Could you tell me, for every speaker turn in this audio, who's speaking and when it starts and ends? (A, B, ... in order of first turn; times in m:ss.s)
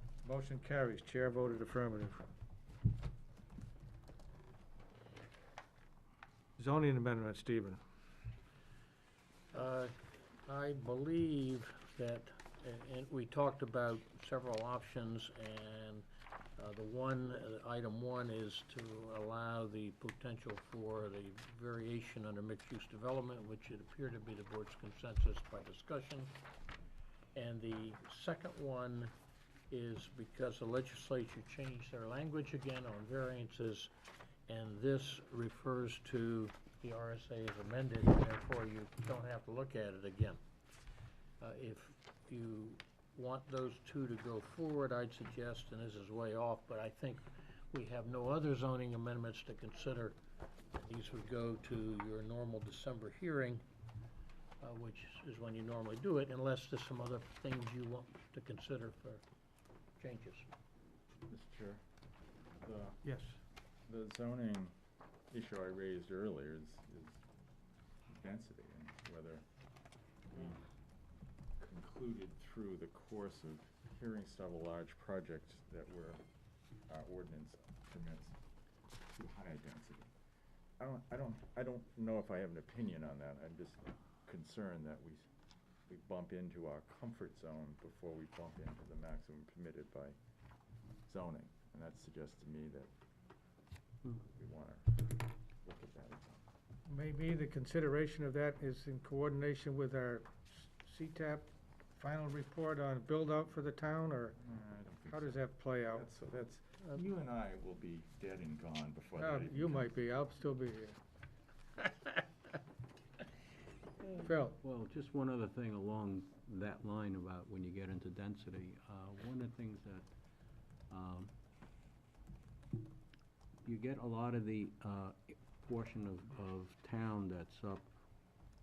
0:00.2-0:02.2 A
0:06.6-0:07.8 A
0:09.5-0:16.0 B
0:16.6-0:26.3 B
0:27.3-0:29.1 B
0:29.7-0:33.9 B
0:34.5-0:40.4 B
0:41.4-0:50.2 B
0:50.7-0:53.6 B
0:54.6-0:59.2 B
1:00.0-1:00.5 B
1:01.3-1:01.8 C
1:02.5-1:03.0 C
1:03.0-1:03.4 A
1:03.9-1:04.7 C
1:05.3-1:07.2 C
1:08.1-1:09.4 C
1:10.3-1:10.6 C
1:11.6-1:16.2 C
1:16.9-1:18.4 C
1:19.1-1:20.1 C
1:20.8-1:25.3 C
1:25.9-1:30.2 C
1:31.1-1:32.9 C
1:34.2-1:35.0 C
1:35.6-1:36.4 C
1:36.9-1:44.4 A
1:44.4-1:49.9 C
1:45.1-1:46.1 A
1:49.2-1:51.0 A
1:54.2-1:54.6 A
1:54.6-2:00.0 D
2:00.9-2:01.3 D
2:03.6-2:07.9 D